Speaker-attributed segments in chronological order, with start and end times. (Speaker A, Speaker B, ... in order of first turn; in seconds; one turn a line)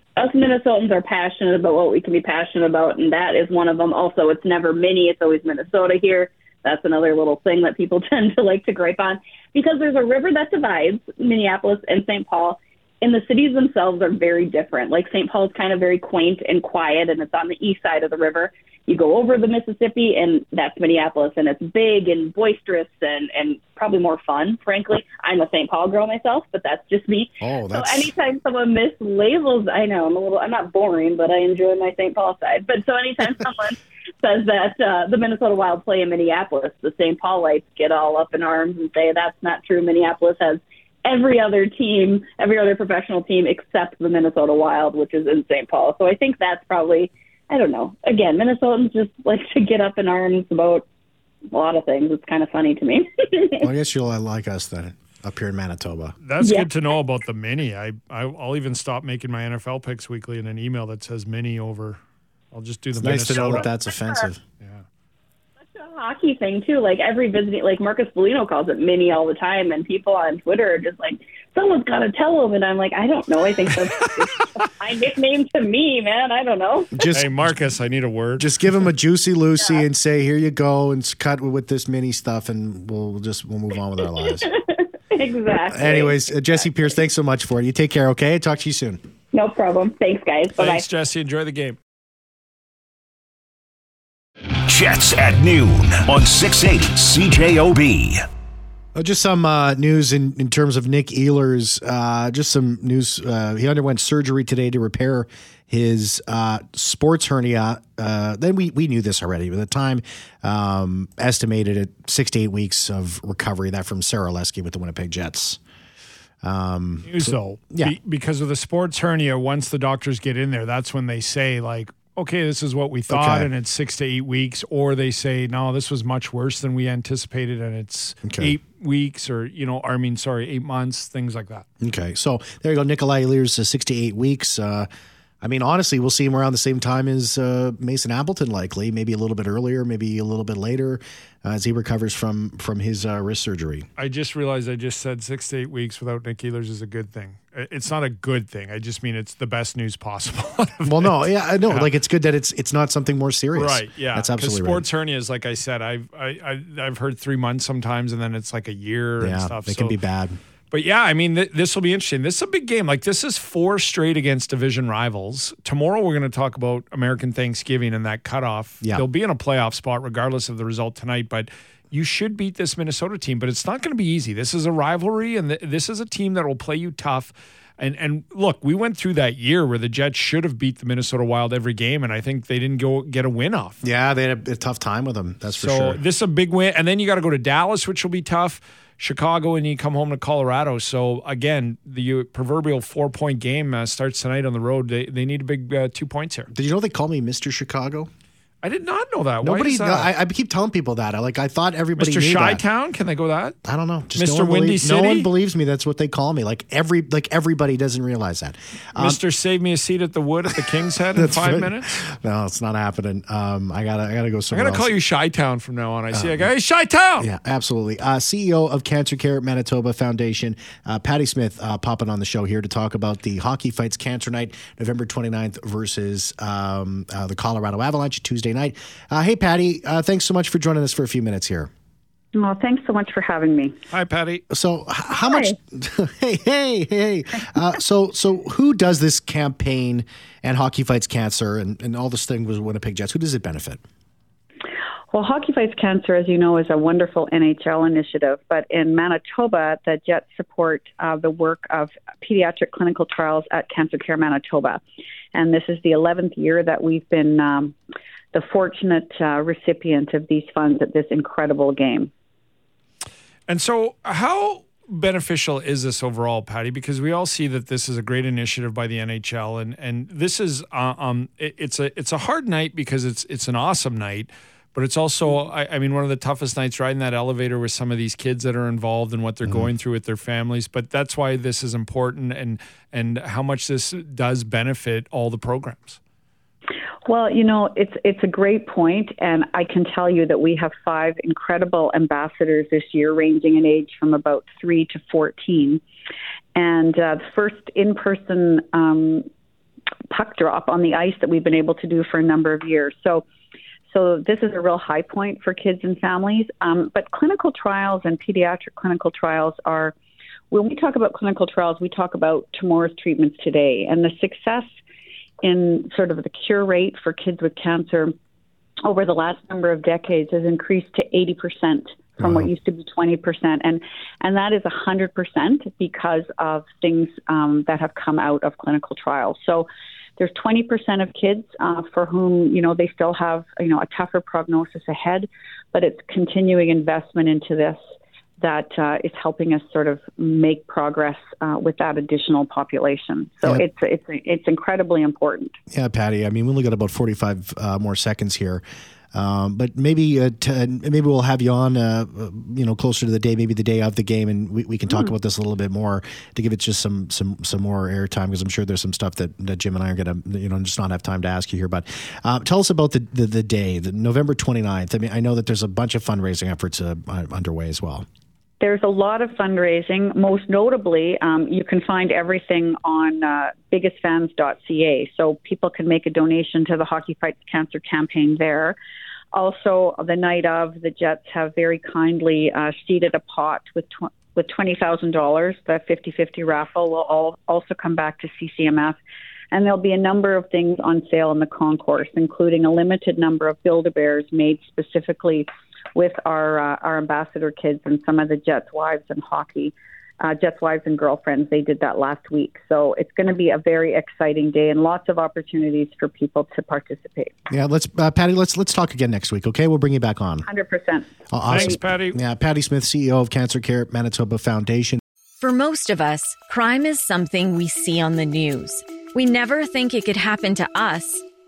Speaker A: 0.2-50.8
Speaker B: 27.4-28.1
Speaker A: 51.5-53.7
Speaker B: 53.6-56.1
Speaker C: 56.2-62.0
Speaker A: 56.4-56.7
Speaker C: 62.5-63.7
Speaker B: 63.0-64.4
Speaker A: 65.7-76.9
Speaker B: 76.9-77.5
Speaker C: 77.1-78.5
Speaker B: 78.4-84.5
Speaker A: 84.4-86.3
Speaker B: 85.7-89.0
Speaker A: 89.3-90.8
Speaker C: 90.6-91.8
Speaker D: 94.7-98.2
Speaker B: 98.9-115.6
Speaker B: 116.4-118.0
Speaker C: 117.0-131.7
Speaker B: 123.1-123.5
Speaker B: 128.2-128.5
Speaker B: 131.8-134.9
Speaker B: 135.4-143.9
Speaker C: 144.0-151.9
Speaker B: 150.8-154.8
Speaker C: 153.6-159.9
Speaker B: 159.2-160.4
Speaker C: 160.7-183.8
Speaker B: 183.8-186.0
Speaker C: 185.5-196.5
Speaker B: 196.5-198.1
Speaker C: 198.6-200.1
Speaker B: 199.4-202.6
Speaker C: 202.0-203.5
Speaker B: 203.6-209.2
Speaker C: 204.1-205.3
Speaker C: 208.9-211.9
Speaker B: 211.1-214.9
Speaker C: 214.5-217.3
Speaker B: 216.1-216.5
Speaker B: 217.2-231.7
Speaker E: 232.3-233.8
Speaker C: 233.9-234.4
Speaker B: 234.5-243.8
Speaker E: 245.1-254.8
Speaker E: 255.3-257.8
Speaker E: 258.3-262.1
Speaker C: 263.5-286.0
Speaker E: 287.1-295.8
Speaker E: 296.6-299.3
Speaker E: 300.1-303.2
Speaker E: 303.9-309.9
Speaker E: 310.5-314.7
Speaker E: 315.4-318.1
Speaker E: 318.8-337.8
Speaker B: 322.2-322.5
Speaker E: 338.4-345.5
Speaker B: 345.7-348.6
Speaker B: 349.1-368.1
Speaker E: 368.6-378.8
Speaker E: 379.3-389.0
Speaker E: 389.5-407.3
Speaker B: 407.5-410.5
Speaker E: 410.4-411.7
Speaker B: 411.3-415.0
Speaker C: 411.5-412.2
Speaker F: 415.4-421.2